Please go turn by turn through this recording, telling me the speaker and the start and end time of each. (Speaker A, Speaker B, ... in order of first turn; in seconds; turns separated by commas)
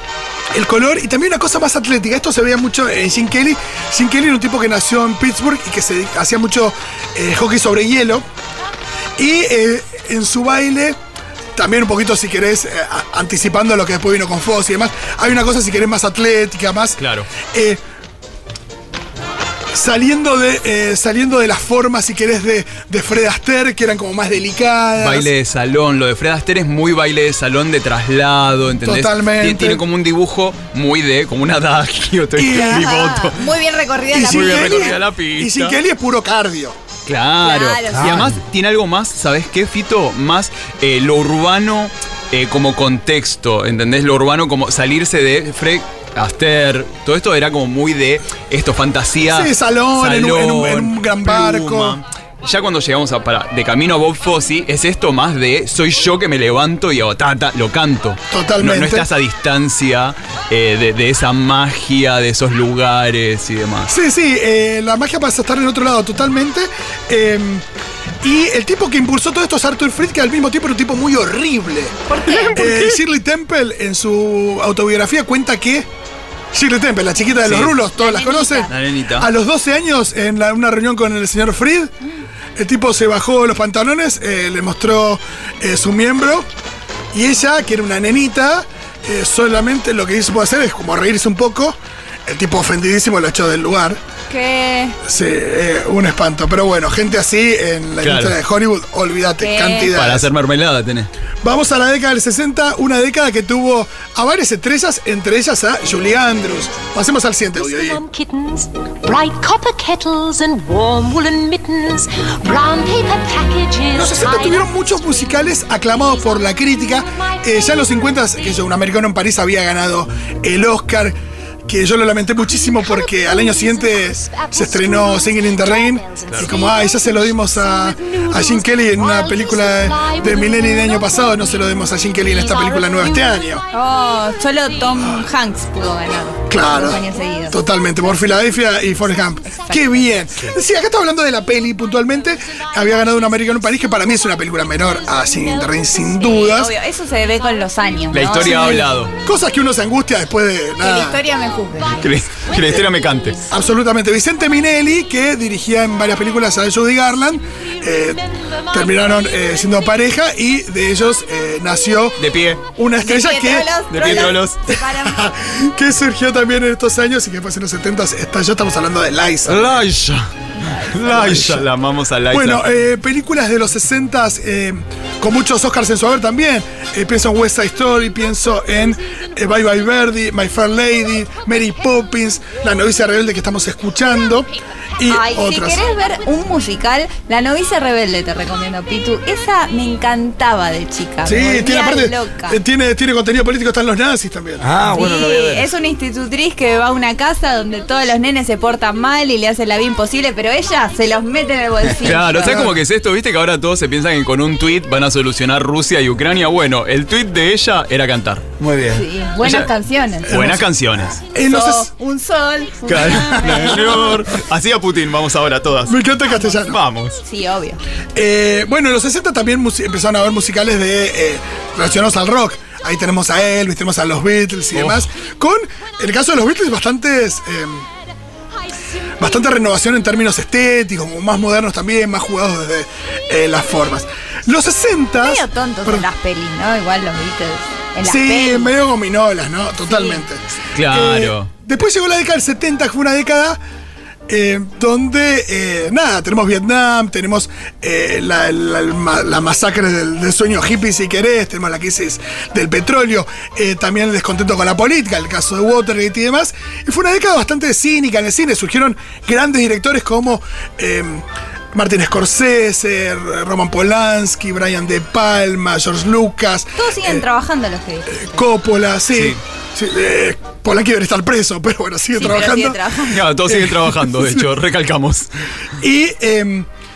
Speaker A: 0.5-8.2, Speaker A: 9.2-11.0, Speaker A: 11.5-17.8, Speaker B: 17.0-17.3, Speaker A: 19.7-25.3, Speaker B: 24.9-33.4, Speaker A: 28.8-29.8, Speaker A: 32.4-32.9, Speaker C: 32.5-34.9, Speaker A: 34.1-36.8, Speaker B: 34.2-35.8, Speaker B: 37.0-63.9, Speaker C: 37.4-38.2, Speaker D: 37.9-38.4, Speaker A: 49.3-52.0, Speaker A: 58.3-59.0, Speaker A: 63.9-67.6, Speaker A: 68.2-72.0, Speaker C: 72.1-72.7, Speaker A: 72.5-75.9, Speaker B: 72.5-72.9, Speaker A: 76.5-81.9, Speaker B: 77.4-77.7, Speaker C: 77.9-78.7, Speaker B: 78.7-79.3, Speaker A: 82.6-86.5, Speaker A: 87.1-94.0, Speaker C: 94.3-95.0, Speaker A: 95.0-100.3, Speaker B: 98.0-98.4, Speaker C: 99.4-99.9, Speaker B: 99.9-101.1, Speaker A: 101.4-108.0, Speaker E: 107.6-118.6, Speaker A: 113.9-121.1, Speaker A: 121.7-133.6, Speaker E: 122.6-133.4, Speaker C: 133.7-137.6, Speaker A: 136.5-146.7, Speaker C: 139.4-140.0, Speaker C: 146.3-148.9, Speaker B: 148.1-149.1, Speaker A: 148.7-151.2, Speaker C: 150.8-152.1, Speaker B: 152.0-153.4, Speaker A: 153.5-169.6, Speaker B: 162.2-162.6, Speaker C: 163.0-165.3, Speaker B: 163.9-164.6, Speaker B: 169.4-172.6, Speaker C: 170.6-171.0, Speaker A: 171.0-171.7, Speaker A: 172.3-185.8, Speaker C: 185.1-192.6, Speaker A: 191.2-194.6, Speaker D: 194.6-195.7, Speaker C: 194.9-202.6, Speaker B: 202.0-208.5, Speaker A: 202.3-202.8, Speaker D: 208.6-209.1, Speaker C: 208.9-210.3, Speaker B: 209.4-209.7, Speaker A: 210.3-210.7, Speaker B: 210.3-211.2, Speaker A: 211.3-211.9, Speaker C: 211.4-214.0, Speaker B: 212.9-216.0, Speaker A: 213.5-213.7, Speaker A: 215.9-216.8, Speaker B: 216.6-217.2, Speaker C: 217.2-217.8, Speaker A: 218.1-227.8, Speaker B: 224.7-225.1, Speaker A: 229.2-236.1, Speaker C: 235.2-238.7, Speaker A: 238.0-243.6, Speaker C: 239.9-240.2, Speaker B: 240.7-241.5, Speaker A: 244.3-267.2, Speaker C: 266.8-268.4, Speaker A: 268.1-272.8, Speaker B: 269.1-269.4, Speaker C: 272.2-273.2, Speaker B: 273.1-275.3, Speaker A: 273.4-274.4, Speaker A: 275.8-276.7